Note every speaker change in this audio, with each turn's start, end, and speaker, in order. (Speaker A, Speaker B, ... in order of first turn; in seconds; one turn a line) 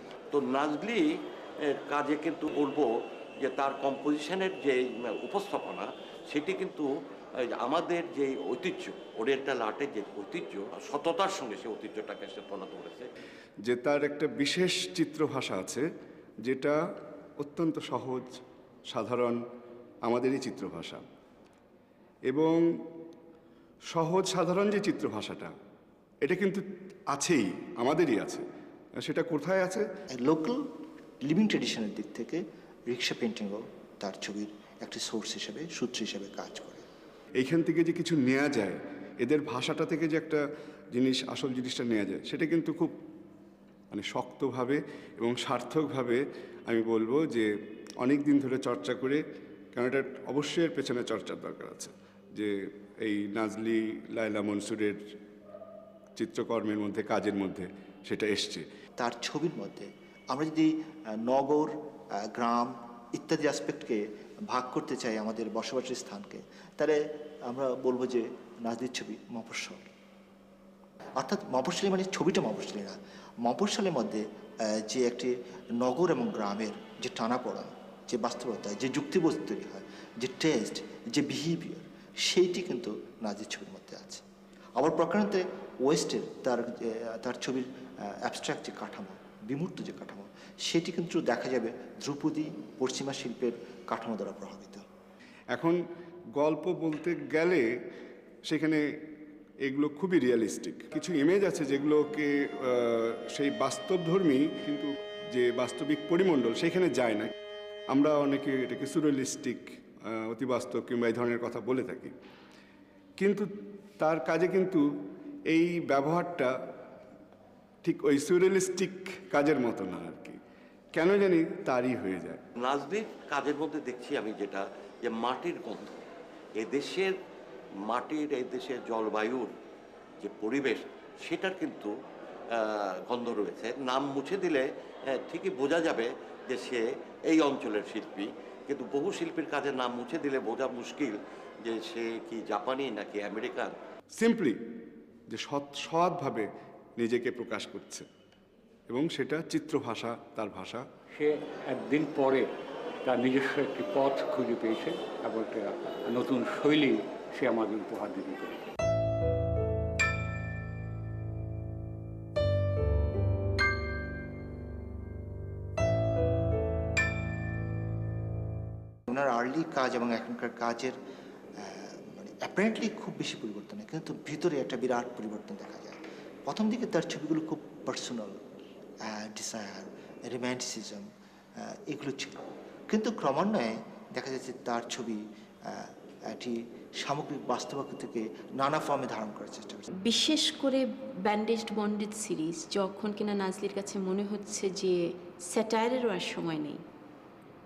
Speaker A: 0.3-1.1
Speaker A: 1.6-2.9
Speaker A: 3.4-13.1
Speaker B: 13.6-15.8
Speaker B: 16.4-16.8
Speaker B: 17.4-18.3
Speaker B: 18.9-19.4
Speaker B: 20.0-21.0
Speaker B: 22.3-22.6
Speaker B: 23.9-25.5
Speaker B: 26.2-28.4
Speaker B: 29.0-29.8
Speaker C: 30.1-30.6
Speaker C: 31.2-36.9
Speaker B: 37.4-40.4
Speaker B: 40.9-42.9
Speaker B: 43.9-47.5
Speaker B: 48.0-49.2
Speaker B: 49.7-55.0
Speaker B: 56.2-58.6
Speaker C: 59.0-69.9
Speaker C: 71.2-84.2
Speaker C: 84.8-94.8
Speaker B: 95.5-95.8
Speaker B: 96.3-97.7
Speaker B: 98.5-98.8
Speaker B: 99.6-107.3
Speaker B: 107.9-112.1
Speaker B: 113.2-114.8
Speaker B: 115.5-116.5
Speaker B: 117.8-120.4
Speaker B: 120.9-122.4
Speaker A: 122.5-126.0
Speaker A: 126.6-127.2
Speaker A: 127.9-129.5
Speaker A: 130.2-131.9
Speaker A: 132.5-143.8
Speaker B: 144.2-144.6
Speaker B: 145.3-148.1
Speaker B: 148.9-150.8
Speaker D: 151.1-152.5
Speaker D: 153.1-158.7
Speaker C: 169.1-171.0
Speaker C: 171.6-178.4
Speaker C: 179.0-189.9
Speaker E: 190.0-196.8